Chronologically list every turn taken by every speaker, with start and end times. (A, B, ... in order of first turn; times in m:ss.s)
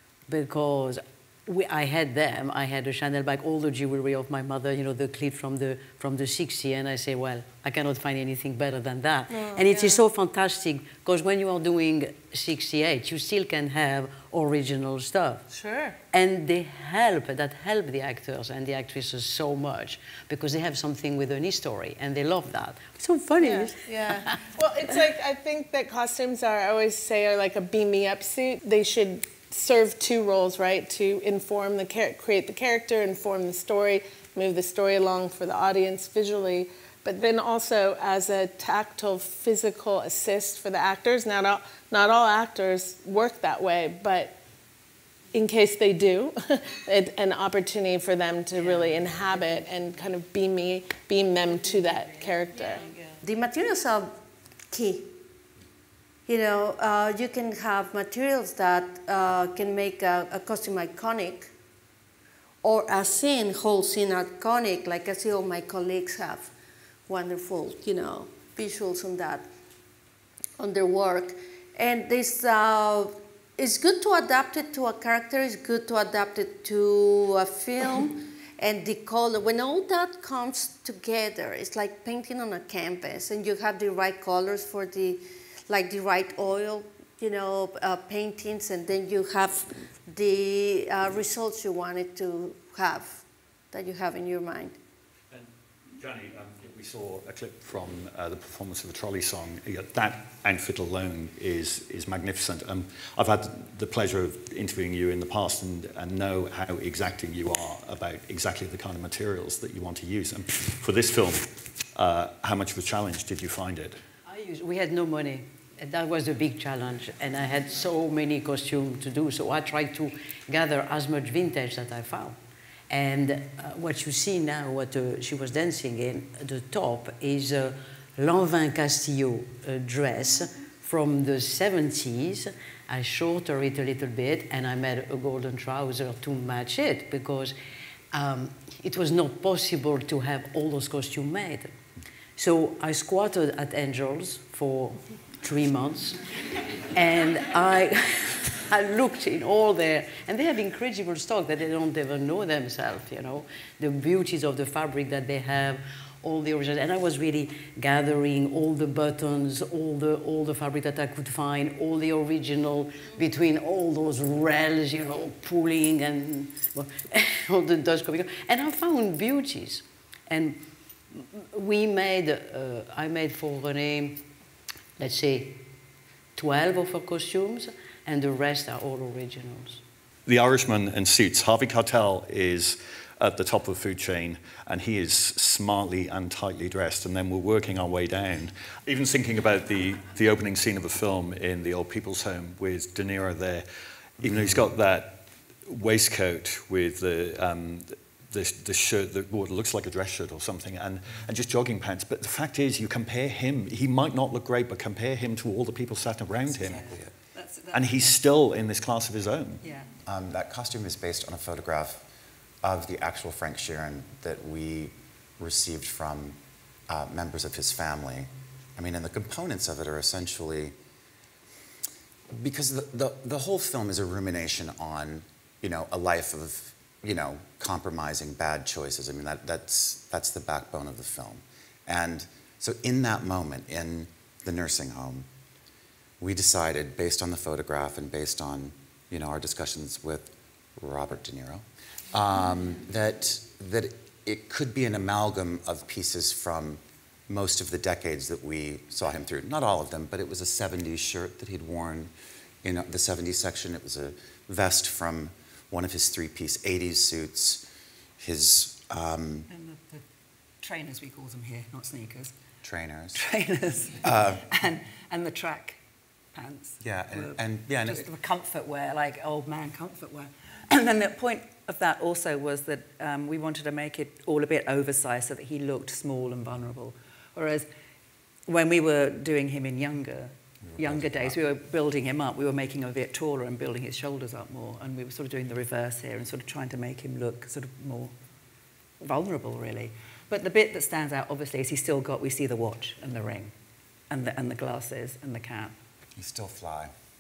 0:00.3-0:15.4 A
0:09.3-0:10.0 B
0:15.5-0:16.0 B
0:16.1-0:24.3 A
0:23.4-0:44.4 B
0:45.3-0:52.9 B
0:53.2-0:54.1 C
0:54.7-0:55.2 C
0:56.3-1:01.5 C
1:02.6-1:06.5 C
1:07.1-1:09.4 C
1:10.6-1:34.7 C
1:35.3-1:54.0 D
1:54.2-2:02.4 A
2:02.9-2:17.5 A
2:18.1-2:21.7 A
2:22.4-2:26.2 A
2:26.9-2:50.6 A
2:51.1-2:54.2 A
2:55.0-2:55.6 A
2:56.4-2:59.8 A
3:00.2-3:13.6 D
3:14.2-3:27.1 D
3:26.5-3:28.1 E
3:27.7-3:29.6 D
3:29.6-3:29.9 E
3:30.1-3:32.0 F
3:32.6-3:36.4 F
3:36.9-3:40.7 F
3:42.3-3:55.3 F
3:56.2-4:17.6 F
4:18.2-4:19.5 F
4:19.5-4:20.0 E
4:20.6-4:22.3 E
4:22.6-4:23.2 F
4:23.1-4:25.8 E
4:24.0-4:24.4 F
4:26.3-4:37.7 E
4:26.8-4:28.0 F
4:38.5-4:48.1 E
4:40.7-4:41.0 F
4:49.0-4:53.5 E
4:54.1-4:55.7 E
4:56.2-4:56.9 F